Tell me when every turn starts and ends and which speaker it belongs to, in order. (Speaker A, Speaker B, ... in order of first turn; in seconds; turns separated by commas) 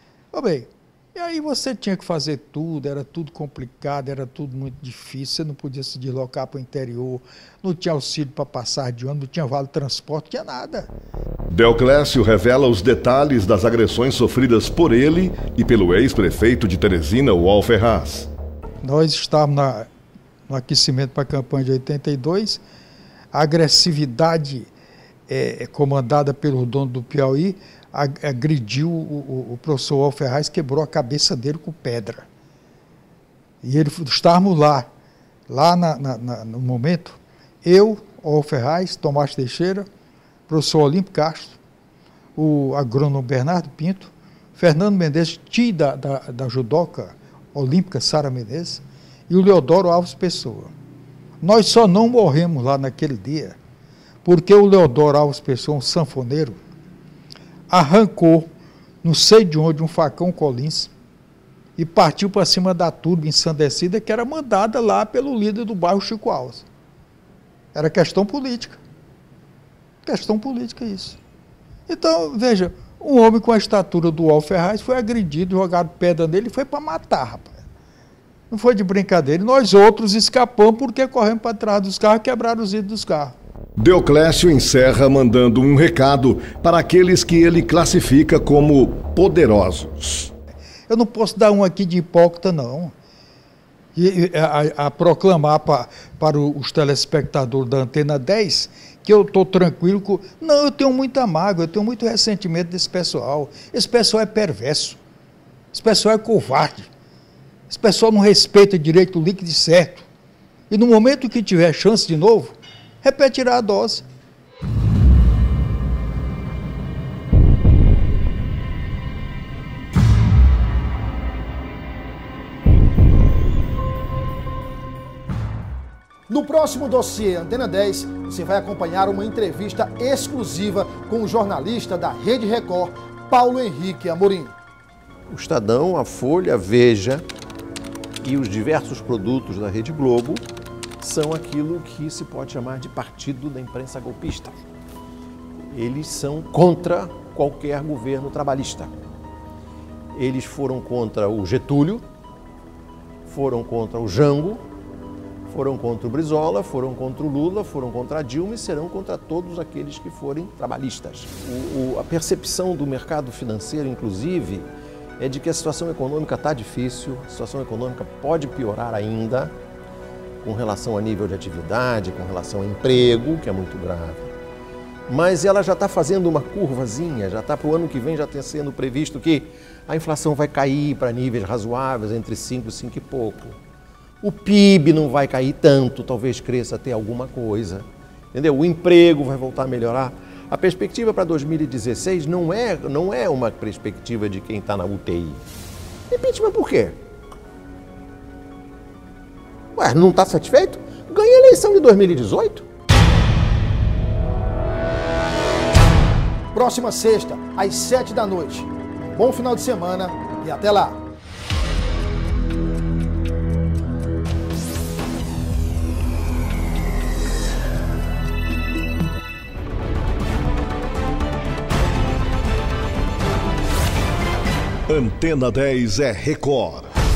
Speaker A: 0.3-10.9, Speaker B: 11.5-18.3, Speaker A: 18.8-19.9, Speaker A: 20.5-22.6, Speaker A: 23.3-24.7, Speaker A: 25.3-32.2, Speaker A: 33.6-34.9, Speaker A: 35.5-39.9, Speaker A: 40.5-41.6, Speaker A: 42.4-50.7, Speaker A: 51.4-53.6, Speaker A: 54.2-56.6, Speaker A: 57.7-58.5, Speaker A: 59.0-60.9, Speaker A: 61.8-66.7, Speaker A: 67.7-68.8, Speaker A: 70.0-71.2, Speaker A: 71.9-77.6, Speaker A: 78.5-83.3, Speaker B: 83.8-90.3, Speaker A: 90.9-92.9, Speaker A: 93.9-105.0, Speaker A: 105.7-106.9, Speaker A: 107.7-110.1, Speaker A: 110.7-114.0, Speaker C: 126.3-134.5, Speaker D: 135.3-137.2, Speaker D: 138.2-140.4, Speaker D: 141.0-144.6, Speaker D: 145.7-148.9, Speaker D: 150.1-152.0, Speaker D: 153.3-154.6, Speaker D: 155.5-164.7, Speaker D: 165.2-169.5, Speaker D: 170.4-174.3, Speaker D: 175.1-183.6, Speaker D: 184.2-195.4, Speaker D: 196.1-197.0, Speaker D: 199.8-202.7, Speaker C: 206.5-211.0, Speaker B: 224.9-226.9